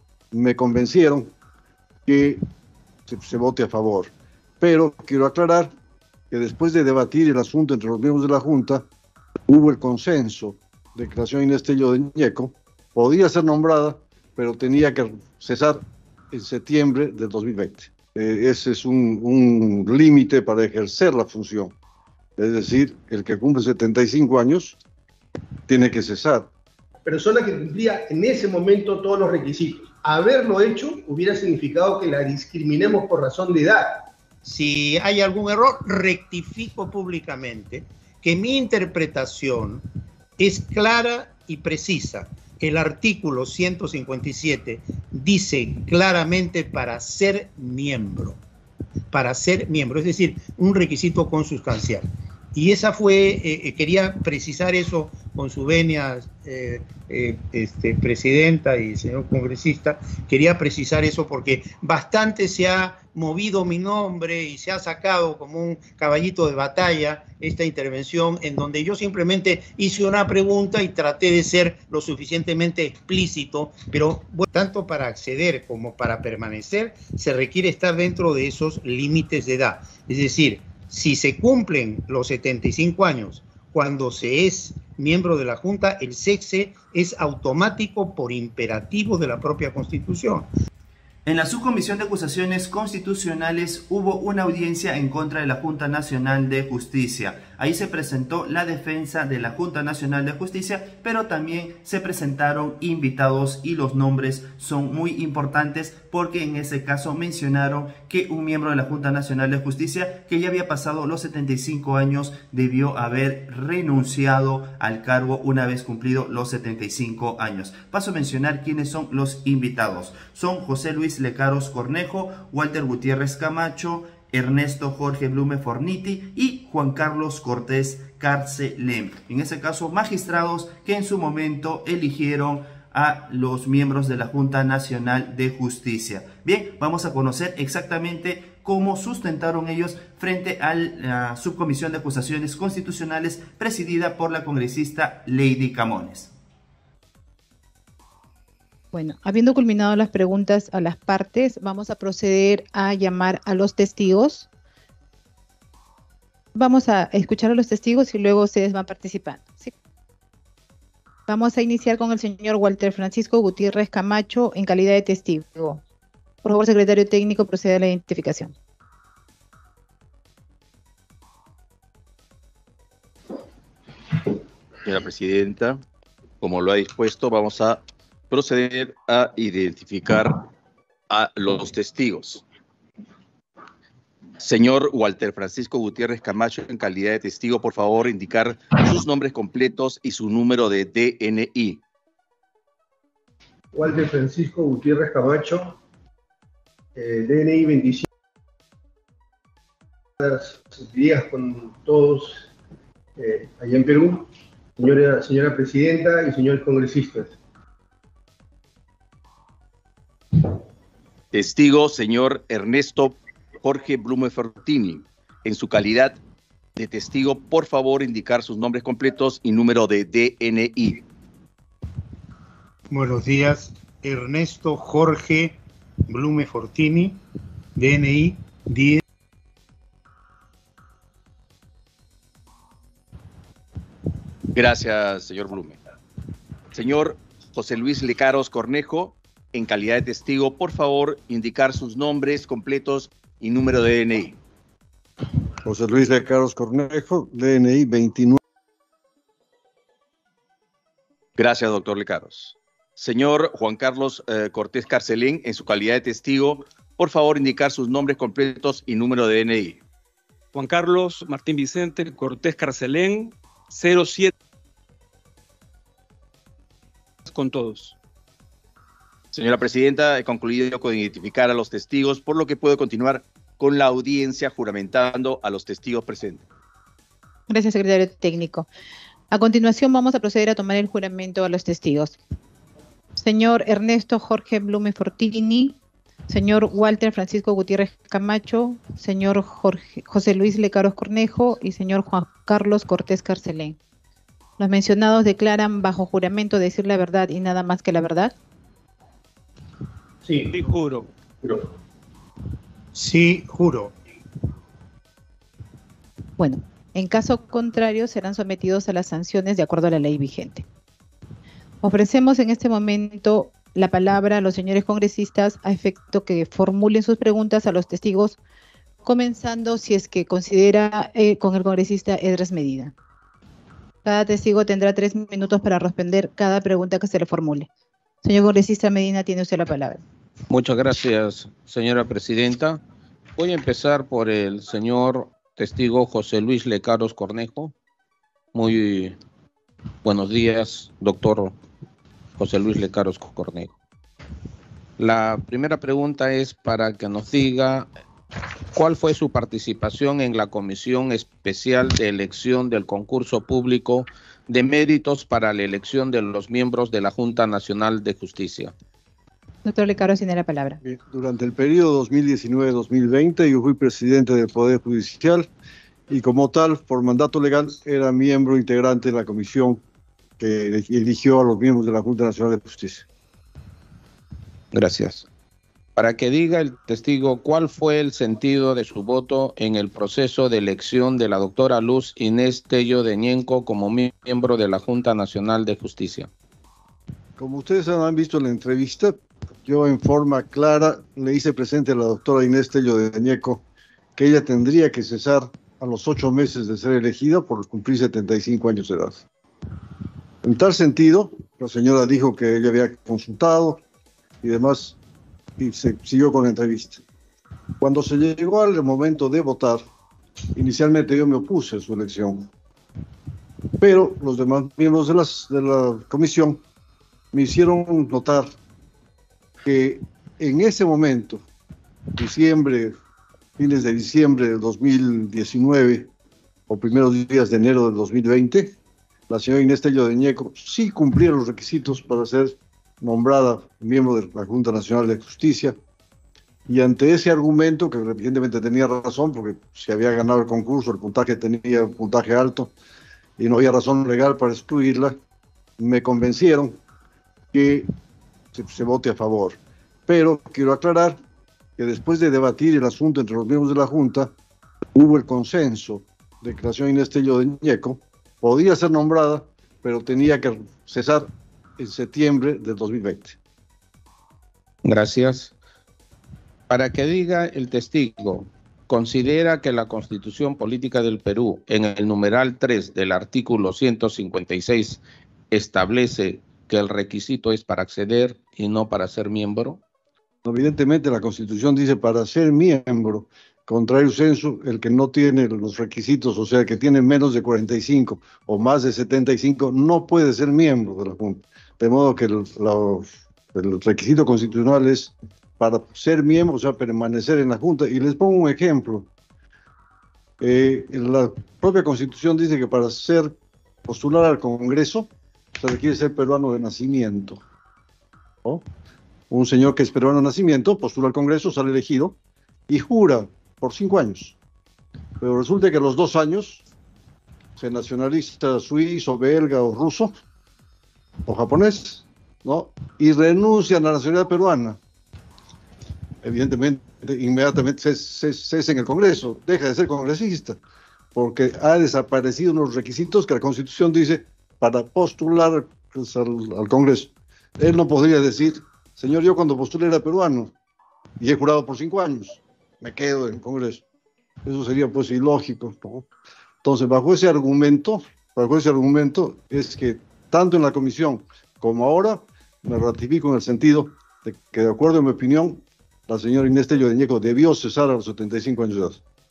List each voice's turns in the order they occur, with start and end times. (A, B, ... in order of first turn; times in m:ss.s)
0:00.3-0:01.3 A
0:02.1-0:02.4 A
0:03.1-0:05.7 A
0:06.3-0:08.9 A
0:09.5-0:21.8 A
0:22.4-0:24.8 A
0:25.7-0:26.5 A
0:27.0-0:34.1 B
0:34.4-0:39.9 C
0:40.4-0:48.4 C
0:49.1-1:30.5 C
1:31.2-2:26.3 D
2:28.9-2:34.5 E
2:36.5-2:39.7 E
2:41.3-2:45.8 E
2:46.4-2:48.5 E
2:54.8-2:55.8 F
2:56.4-3:00.5 F
3:01.1-3:02.4 F
3:04.4-3:11.8 F
3:13.7-3:15.8 B
3:17.0-3:18.1 B
3:20.2-3:22.5 B
3:23.2-3:24.3 B
3:24.8-3:27.4 B
3:31.3-3:36.2 F
3:36.8-3:41.0 F
3:42.9-3:47.2 C
3:47.8-3:49.0 C
3:54.5-3:55.8 F
3:56.7-4:04.4 F
4:05.6-4:08.4 A
4:11.4-4:19.8 F
4:20.5-4:24.3 G
4:27.2-4:27.9 G
4:29.3-4:36.4 F
4:37.5-4:38.7 E
4:39.3-4:42.2 E
4:43.2-4:45.8 E
4:46.3-4:53.8 E
4:54.6-4:58.3 E
5:00.2-5:00.6 B
5:00.5-5:01.1 G
5:02.9-5:03.9 C
5:06.4-5:10.6 E
5:11.8-5:18.4 E
5:19.0-5:22.9 E
5:24.0-5:27.7 E
5:28.2-5:30.0 E
5:30.5-5:32.8 H
5:33.4-5:37.7 H
5:38.5-5:39.2 H
5:40.0-5:41.6 H
5:42.4-5:43.8 H
5:45.0-5:47.9 H
5:48.7-5:58.7 H
5:59.6-6:00.8 E
6:00.8-6:05.5 A
6:06.1-6:09.8 A
6:10.4-6:13.1 A
6:14.7-6:15.2 H
6:16.0-6:26.3 H
6:27.4-6:33.6 A
6:34.2-6:39.2 A
6:40.4-6:43.8 A
6:44.4-6:45.0 A
6:45.6-6:47.0 A
6:47.8-6:49.8 A
6:50.5-6:52.5 A
6:53.8-6:56.6 A
6:57.3-6:58.5 A
6:59.6-7:01.4 A
7:02.2-7:03.0 A
7:03.6-7:06.1 A
7:06.7-7:08.8 A
7:09.3-7:15.8 A
7:16.7-7:22.7 A
7:23.4-7:25.2 A
7:25.8-7:26.8 A
7:27.5-7:27.9 A
7:28.5-7:31.2 A
7:31.8-7:34.3 A
7:34.9-7:43.4 A
7:44.8-7:45.5 H
7:46.7-7:59.8 H
8:00.4-8:19.1 A
8:20.4-8:23.4 A
8:23.9-8:27.4 A
8:29.3-8:32.2 A
8:32.7-8:34.4 A
8:35.2-8:36.6 A
8:37.6-8:40.1 A
8:41.2-8:44.8 A
8:46.2-8:50.6 A
8:51.1-9:00.5 A
9:01.2-9:03.8 A
9:04.4-9:06.1 A
9:06.6-9:19.0 A